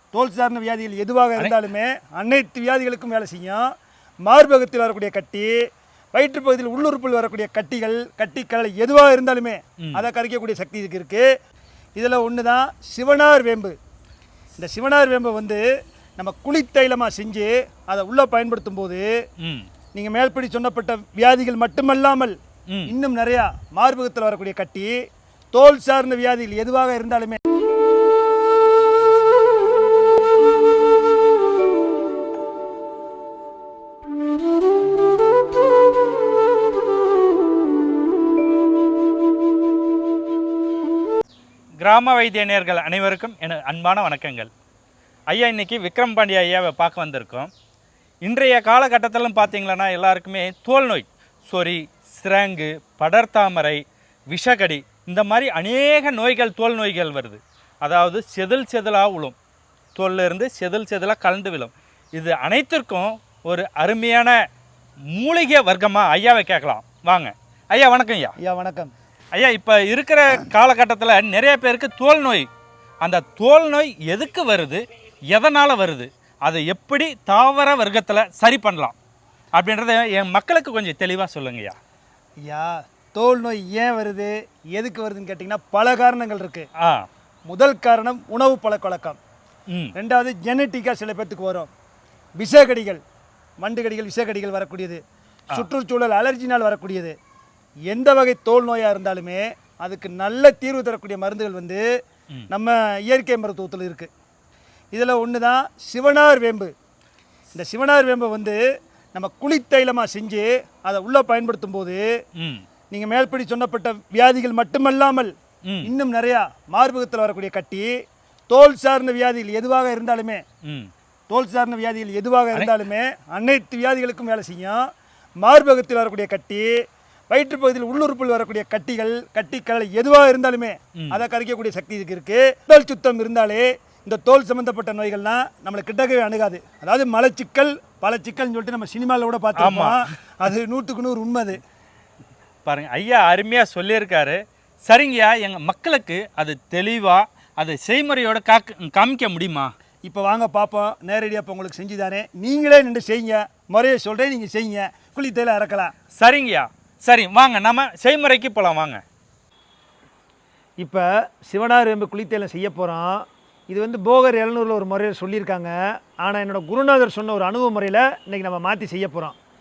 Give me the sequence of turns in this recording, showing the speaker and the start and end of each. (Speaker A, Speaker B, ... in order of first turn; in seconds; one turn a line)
Speaker A: 0.1-3.6
Speaker A: 4.2-5.5
Speaker A: 6.1-11.3
Speaker A: 11.9-13.7
Speaker A: 14.6-15.6
Speaker A: 16.2-19.1
Speaker B: 19.4-19.7
Speaker A: 19.9-22.4
Speaker A: 22.9-24.9
Speaker A: 25.5-27.4
Speaker B: 41.8-44.5
Speaker B: 45.3-47.5
Speaker B: 48.2-59.3
Speaker B: 59.9-64.4
Speaker B: 65.1-68.3
Speaker A: 68.4-68.9
Speaker B: 69.3-72.5
Speaker B: 73.0-78.9
Speaker B: 79.5-81.8
Speaker A: 82.4-86.7
Speaker B: 86.8-87.1
Speaker A: 87.5-89.2
Speaker A: 89.9-91.7
Speaker A: 92.4-93.0
Speaker A: 93.6-95.0
Speaker A: 95.5-97.2
Speaker A: 97.9-101.8
Speaker A: 102.5-104.1
Speaker A: 104.9-106.7
Speaker A: 107.5-108.6
Speaker A: 109.1-112.0
Speaker B: 112.3-112.6
Speaker A: 112.9-117.9
Speaker B: 115.6-115.9
Speaker A: 118.5-120.4
Speaker B: 120.6-120.9
Speaker A: 121.3-124.8
Speaker A: 125.4-126.7
Speaker A: 127.3-141.6
Speaker B: 139.6-140.1
Speaker B: 142.6-149.7
Speaker A: 150.0-155.9
Speaker B: 156.2-159.0
Speaker A: 160.8-169.3